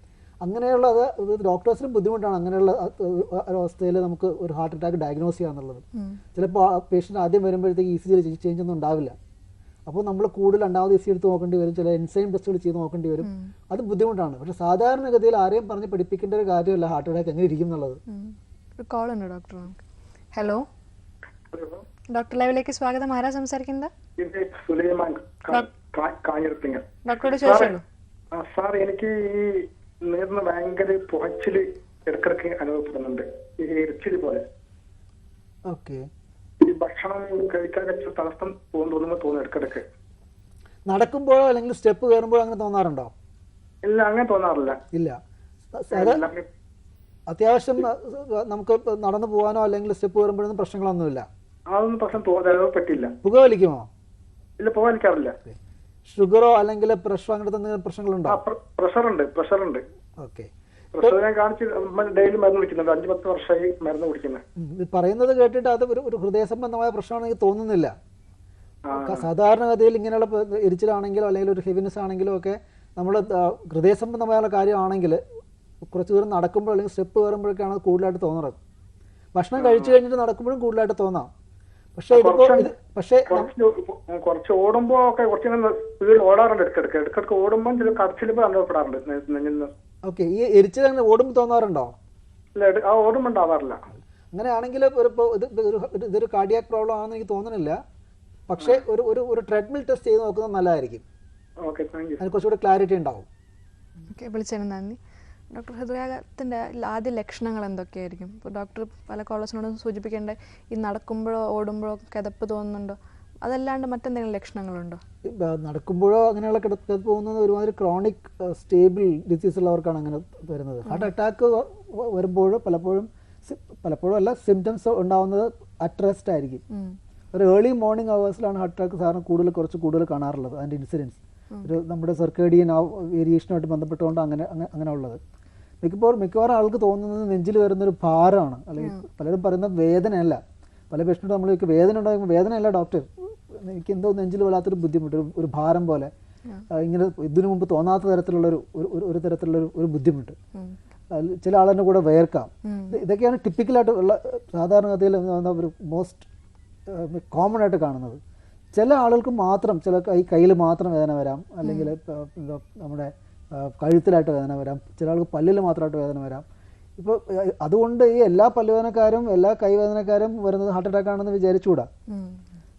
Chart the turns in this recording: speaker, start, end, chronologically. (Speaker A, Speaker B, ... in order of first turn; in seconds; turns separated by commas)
Speaker A: 0.4-5.8, Speaker B: 6.0-6.2, Speaker A: 6.3-9.2, Speaker A: 9.8-18.0, Speaker B: 13.2-13.5, Speaker B: 18.1-19.8, Speaker B: 20.3-20.6, Speaker C: 21.5-21.8, Speaker B: 22.1-23.9, Speaker C: 24.2-27.8, Speaker B: 27.0-27.8, Speaker C: 28.3-34.4, Speaker A: 35.7-36.0, Speaker C: 36.6-39.9, Speaker A: 40.9-43.1, Speaker C: 43.8-44.8, Speaker A: 44.9-45.2, Speaker A: 45.7-46.2, Speaker C: 45.9-46.5, Speaker A: 47.3-51.3, Speaker C: 51.7-53.1, Speaker A: 53.2-53.9, Speaker C: 54.6-55.4, Speaker A: 56.1-58.4, Speaker C: 58.3-59.8, Speaker A: 60.2-61.2, Speaker C: 61.0-64.4, Speaker A: 64.6-67.9, Speaker C: 68.8-69.3, Speaker A: 68.9-75.2, Speaker A: 75.8-78.6, Speaker A: 79.3-81.3, Speaker C: 79.6-80.0, Speaker A: 82.0-83.5, Speaker C: 82.1-82.7, Speaker C: 83.3-89.7, Speaker A: 90.0-91.9, Speaker C: 92.5-93.8, Speaker A: 93.9-97.8, Speaker A: 98.5-101.0, Speaker C: 101.6-102.2, Speaker A: 102.2-103.3, Speaker B: 104.1-105.0, Speaker B: 105.5-115.0, Speaker A: 115.2-126.6, Speaker B: 126.7-127.0, Speaker A: 127.3-135.2, Speaker A: 135.8-146.1, Speaker A: 146.7-150.3, Speaker A: 151.1-156.3, Speaker B: 152.6-153.0, Speaker A: 156.9-158.2, Speaker A: 158.7-166.4, Speaker B: 161.6-161.9, Speaker A: 167.0-171.9, Speaker B: 172.1-172.4